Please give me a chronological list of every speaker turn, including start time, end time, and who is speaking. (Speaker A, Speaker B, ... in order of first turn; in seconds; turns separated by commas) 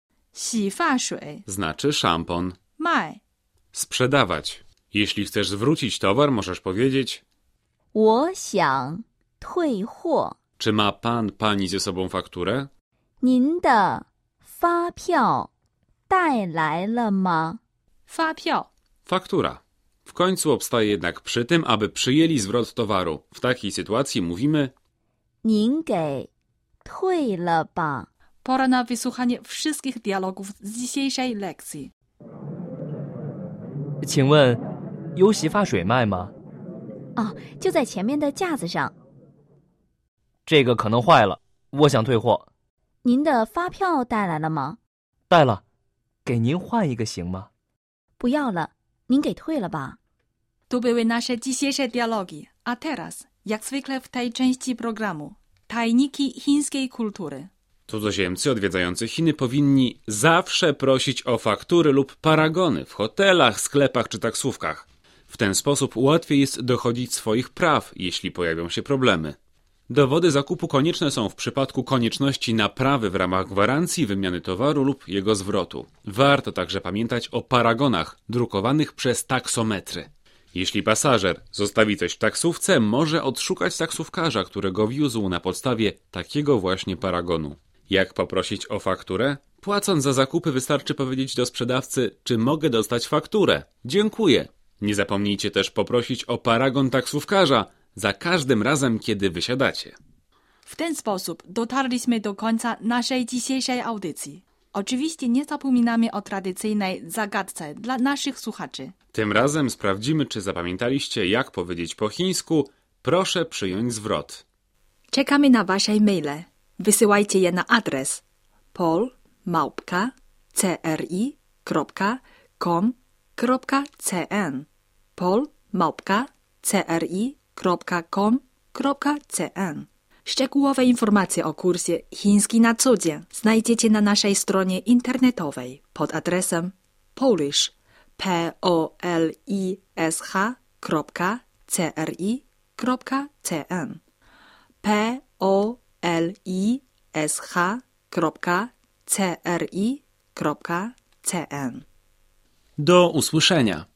Speaker A: 0.3-1.4, Speaker B: 1.5-2.6, Speaker A: 2.8-3.2, Speaker B: 3.7-7.2, Speaker C: 7.9-10.4, Speaker B: 10.6-12.7, Speaker C: 13.2-15.5, Speaker C: 16.1-17.6, Speaker A: 18.1-18.7, Speaker B: 19.1-24.7, Speaker C: 25.4-26.3, Speaker C: 26.8-28.1, Speaker A: 28.4-31.9, Speaker D: 34.0-34.6, Speaker D: 35.1-36.3, Speaker C: 37.2-38.9, Speaker D: 40.5-42.5, Speaker C: 43.0-44.8, Speaker D: 45.3-45.6, Speaker D: 46.2-47.5, Speaker C: 48.2-50.0, Speaker A: 50.7-57.5, Speaker B: 57.9-69.4, Speaker B: 69.9-100.0, Speaker A: 100.7-108.9, Speaker B: 109.1-114.4, Speaker A: 115.1-118.2, Speaker A: 118.7-124.7, Speaker A: 125.2-144.0, Speaker A: 144.8-151.8, Speaker B: 152.8-153.9